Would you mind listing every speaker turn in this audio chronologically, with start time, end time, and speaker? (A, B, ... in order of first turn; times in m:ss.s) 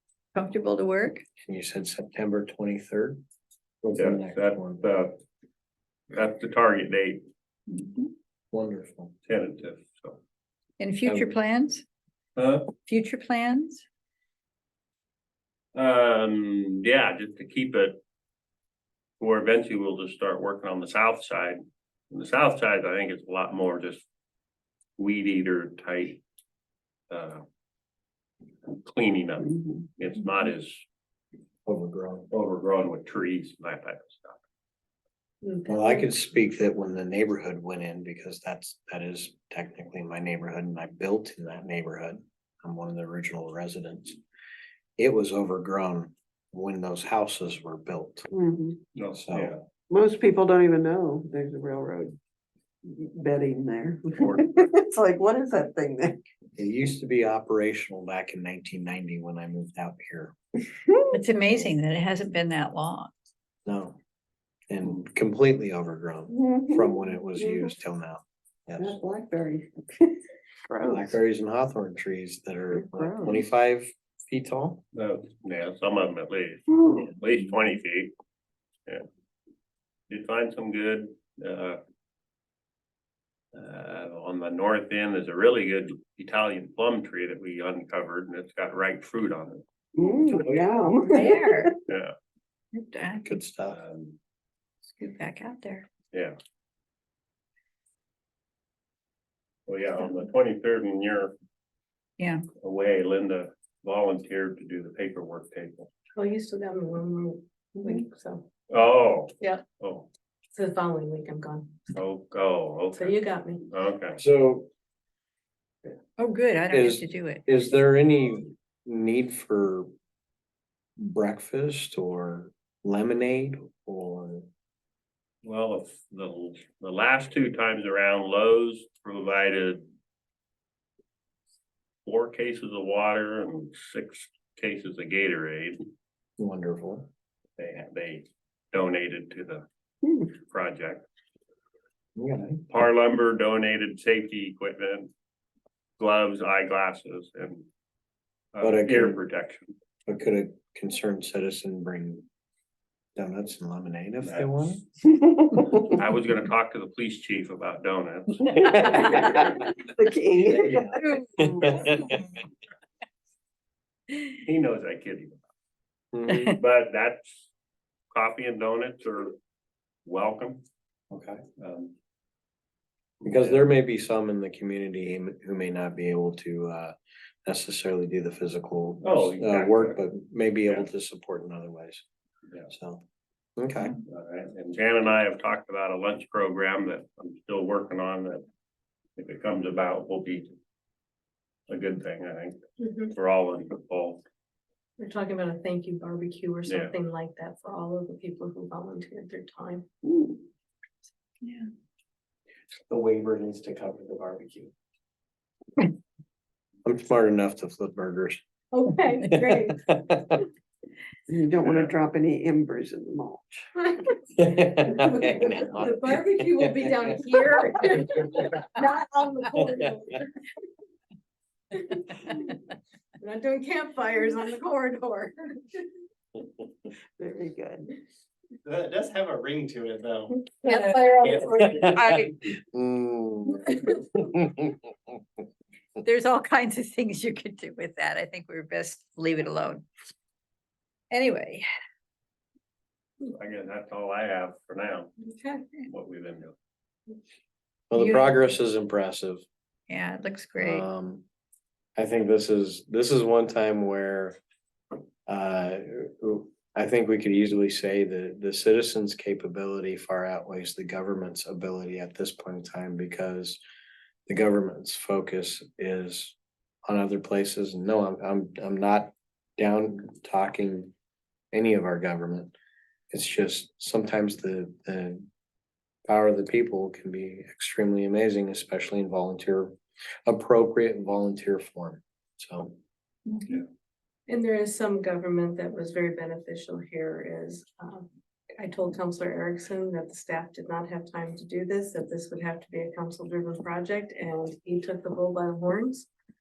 0:00.3-0:01.2 A
0:01.4-0:03.2 B
0:03.8-0:04.8 B
0:04.0-0:05.2 C
0:06.1-0:07.2 C
0:07.7-0:08.1 A
0:08.5-0:09.1 B
0:09.2-0:10.2 C
0:10.8-0:11.8 A
0:11.0-0:11.3 B
0:12.4-0:12.7 C
0:12.8-0:13.8 A
0:15.7-0:18.0 C
0:19.2-0:21.6 C
0:22.1-0:24.0 C
0:25.0-0:26.2 C
0:27.1-0:27.4 C
0:28.6-0:30.8 C
0:31.6-0:32.3 B
0:32.3-0:34.4 C
0:35.4-0:36.1 D
0:35.7-0:44.2 B
0:45.0-0:48.3 B
0:48.3-0:48.8 E
0:48.9-0:49.6 C
0:49.1-0:49.6 B
0:49.9-0:52.2 E
0:52.8-0:56.2 E
0:54.2-0:54.6 C
0:56.6-1:00.4 B
1:01.1-1:03.1 A
1:01.4-1:01.7 B
1:03.6-1:04.0 B
1:04.7-1:09.0 B
1:06.3-1:07.7 E
1:08.8-1:11.2 E
1:10.8-1:14.8 B
1:12.7-1:13.4 E
1:14.9-1:18.1 C
1:20.1-1:21.8 C
1:23.5-1:29.6 C
1:30.0-1:31.8 E
1:31.1-1:31.7 A
1:31.9-1:32.1 C
1:32.7-1:33.3 A
1:33.2-1:33.8 B
1:33.7-1:34.2 C
1:34.8-1:35.9 A
1:39.7-1:41.3 C
1:42.2-1:42.4 A
1:42.6-1:45.9 C
1:46.1-1:48.4 D
1:48.7-1:50.1 C
1:50.5-1:51.8 D
1:51.9-1:53.2 C
1:52.9-1:53.6 D
1:53.7-1:54.2 C
1:54.2-1:54.7 B
1:56.2-1:57.4 A
1:56.7-1:59.9 B
2:01.0-2:04.5 B
2:05.4-2:09.9 C
2:12.0-2:15.8 C
2:16.4-2:17.1 B
2:17.6-2:19.6 C
2:20.3-2:21.1 C
2:22.2-2:22.6 B
2:22.7-2:25.1 C
2:26.0-2:27.6 C
2:28.5-2:29.7 C
2:28.6-2:29.2 B
2:30.1-2:32.2 B
2:33.2-2:34.8 B
2:35.1-2:35.8 E
2:35.9-2:39.2 C
2:38.6-2:41.7 E
2:40.5-2:42.3 B
2:44.4-2:45.4 C
2:46.1-2:46.6 B
2:46.5-2:47.5 C
2:48.1-2:49.4 C
2:50.0-2:50.6 C
2:51.1-2:51.4 B
2:51.6-2:51.9 C
2:53.2-3:02.0 B
2:53.2-2:53.6 C
2:59.0-3:00.1 C
3:02.7-3:03.0 B
3:03.6-3:04.0 B
3:04.1-3:08.4 C
3:09.2-3:10.5 C
3:11.7-3:12.6 C
3:12.8-3:13.1 D
3:13.1-3:14.2 C
3:15.0-3:19.9 D
3:16.6-3:16.9 C
3:20.1-3:20.4 E
3:21.4-3:21.7 A
3:23.0-3:24.6 F
3:26.8-3:28.4 B
3:28.7-3:29.8 D
3:29.3-3:30.4 B
3:31.3-3:33.7 E
3:31.6-3:31.9 C
3:33.8-3:40.3 D
3:34.4-3:37.0 B
3:41.7-3:42.6 D
3:43.2-3:45.8 D
3:47.2-3:47.9 E
3:48.6-3:50.3 F
3:50.5-3:51.6 D
3:50.7-3:51.0 A
3:51.4-3:54.8 B
3:51.8-3:52.2 A
3:56.0-3:59.8 A
4:01.1-4:01.6 A
4:03.3-4:05.1 C
4:05.2-4:05.7 D
4:05.8-4:06.6 C
4:07.9-4:09.4 B
4:07.9-4:08.4 A
4:09.9-4:10.8 A
4:10.6-4:11.2 B
4:12.0-4:14.4 B
4:15.3-4:23.6 B
4:24.3-4:26.4 B
4:26.9-4:30.9 B
4:31.5-4:32.5 B
4:33.1-4:35.3 B
4:36.1-4:42.7 B
4:43.3-4:43.6 A
4:44.3-4:56.1 D